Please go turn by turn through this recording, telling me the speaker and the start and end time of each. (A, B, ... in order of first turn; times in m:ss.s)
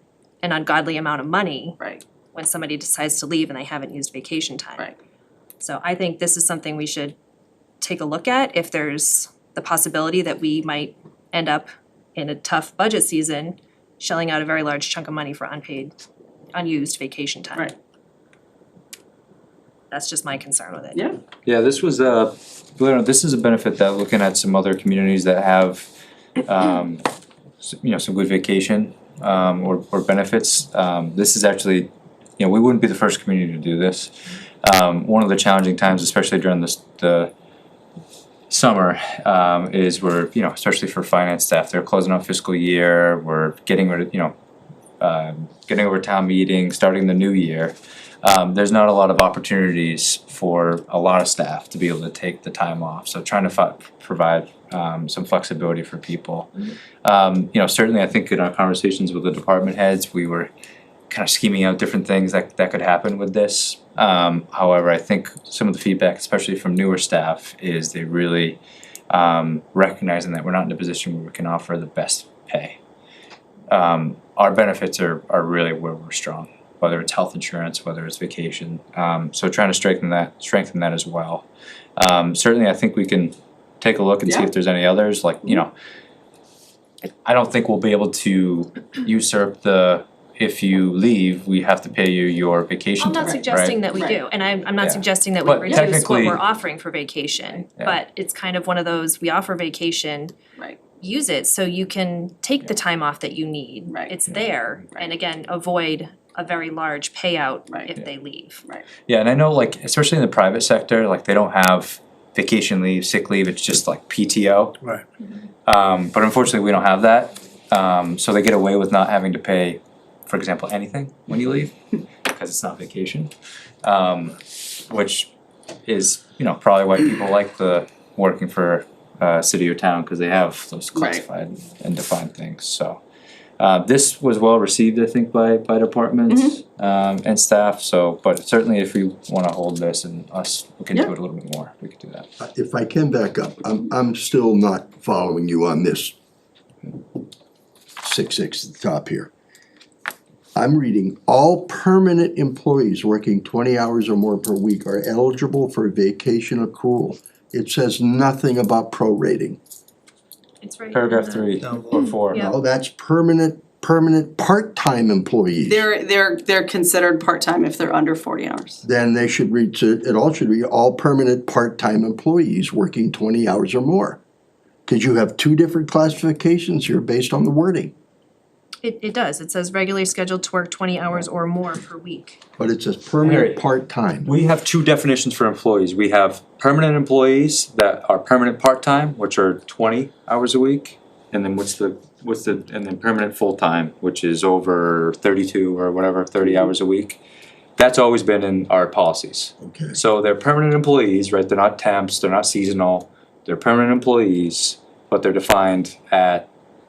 0:00.4-0:01.8 A
0:02.3-0:04.9 A
0:05.6-0:07.2 A
0:07.8-0:15.9 A
0:16.5-0:17.7 A
0:19.9-0:21.0 A
0:21.5-0:25.9 B
0:26.4-0:27.0 B
0:27.6-0:37.3 B
0:38.5-0:44.3 B
0:45.0-1:00.5 B
1:01.1-1:12.8 B
1:13.7-1:21.4 B
1:22.0-1:25.7 B
1:27.2-1:33.8 B
1:33.0-1:40.3 A
1:33.9-1:34.2 C
1:34.8-1:36.4 B
1:35.7-1:36.0 C
1:41.0-1:48.6 A
1:49.0-1:54.8 B
1:55.6-2:03.3 B
2:03.8-2:05.3 B
2:05.8-2:13.0 B
2:11.0-2:11.2 C
2:13.6-2:22.3 B
2:16.3-2:16.6 C
2:22.4-2:26.2 D
2:28.0-2:29.3 D
2:30.6-2:39.6 D
2:40.6-2:41.5 A
2:40.9-2:42.5 B
2:41.9-2:45.8 D
2:45.7-2:48.8 C
2:48.8-2:54.2 D
2:54.9-2:57.9 D
2:58.8-3:02.4 A
3:02.6-3:04.3 D
3:03.2-3:03.6 B
3:04.2-3:17.2 B
3:17.8-3:26.5 B
3:19.6-3:20.0 D